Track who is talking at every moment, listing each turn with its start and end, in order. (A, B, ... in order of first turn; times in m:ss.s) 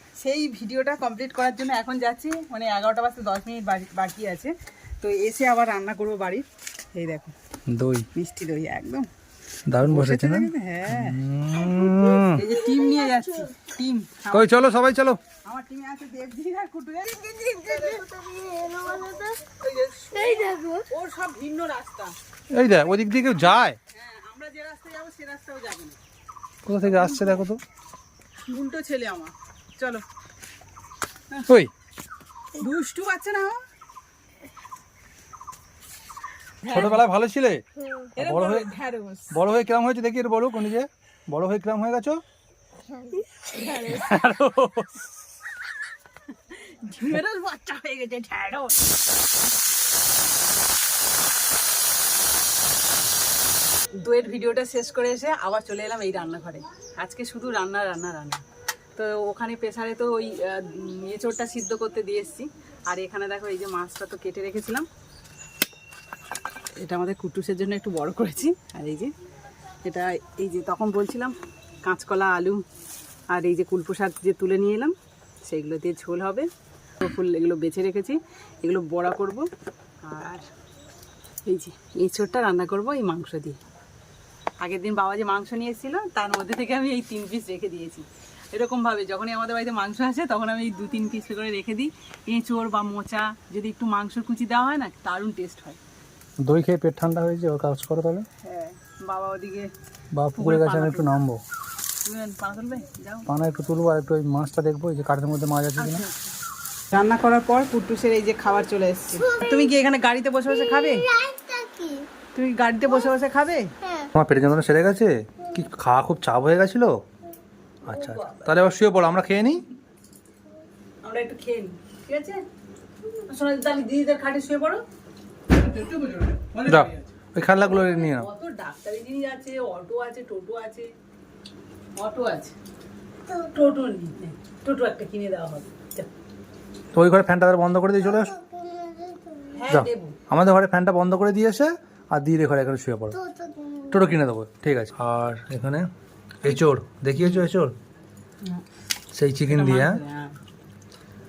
0:00.2-0:07.3 A
0:07.7-0:08.1 B
0:08.1-0:09.1 A
0:09.7-0:12.4 B
0:09.8-0:11.2 A
0:11.6-0:13.5 C
0:12.3-0:14.6 A
0:14.3-0:15.2 B
0:15.4-0:18.0 A
0:17.1-0:19.4 C
0:18.8-0:22.1 A
0:20.1-0:20.9 C
0:22.5-0:23.8 B
0:23.3-0:26.0 A
0:26.6-0:27.6 B
0:26.8-0:27.5 A
0:28.5-0:30.0 A
0:32.6-0:33.6 A
0:36.6-0:37.0 A
0:36.7-0:37.6 B
0:37.8-0:38.2 C
0:38.2-0:39.4 A
0:38.2-0:38.7 B
0:39.3-0:42.2 B
0:42.9-0:43.4 C
0:43.5-0:44.2 A
0:43.9-0:44.9 B
0:46.3-0:48.7 A
0:54.0-0:58.4 A
0:59.0-1:04.9 A
1:06.8-1:09.1 A
1:09.8-1:12.6 A
1:13.3-1:16.5 A
1:17.0-1:19.5 A
1:20.0-1:20.5 A
1:21.4-1:23.6 A
1:24.6-1:35.8 A
1:36.4-1:38.2 B
1:38.4-1:39.7 A
1:40.1-1:41.4 B
1:40.3-1:41.2 A
1:42.0-1:43.3 A
1:43.3-1:46.0 B
1:45.8-1:46.3 A
1:46.9-1:51.0 A
1:49.1-1:49.7 C
1:50.5-1:52.1 C
1:52.3-1:53.7 A
1:53.8-1:54.1 C
1:54.2-1:57.0 B
1:57.9-1:59.6 B
1:57.9-1:58.5 A
2:01.0-2:02.4 A
2:03.3-2:04.8 A
2:05.5-2:06.9 A
2:06.7-2:08.3 B
2:07.6-2:10.9 A
2:12.0-2:12.5 A
2:13.2-2:13.8 C
2:13.5-2:16.1 A
2:16.9-2:18.3 B
2:18.0-2:19.7 C
2:19.6-2:20.2 A
2:19.7-2:23.2 B
2:23.1-2:24.1 C
2:23.9-2:25.8 B
2:26.4-2:27.7 B
2:27.2-2:27.5 A
2:29.1-2:30.0 B
2:29.5-2:30.4 A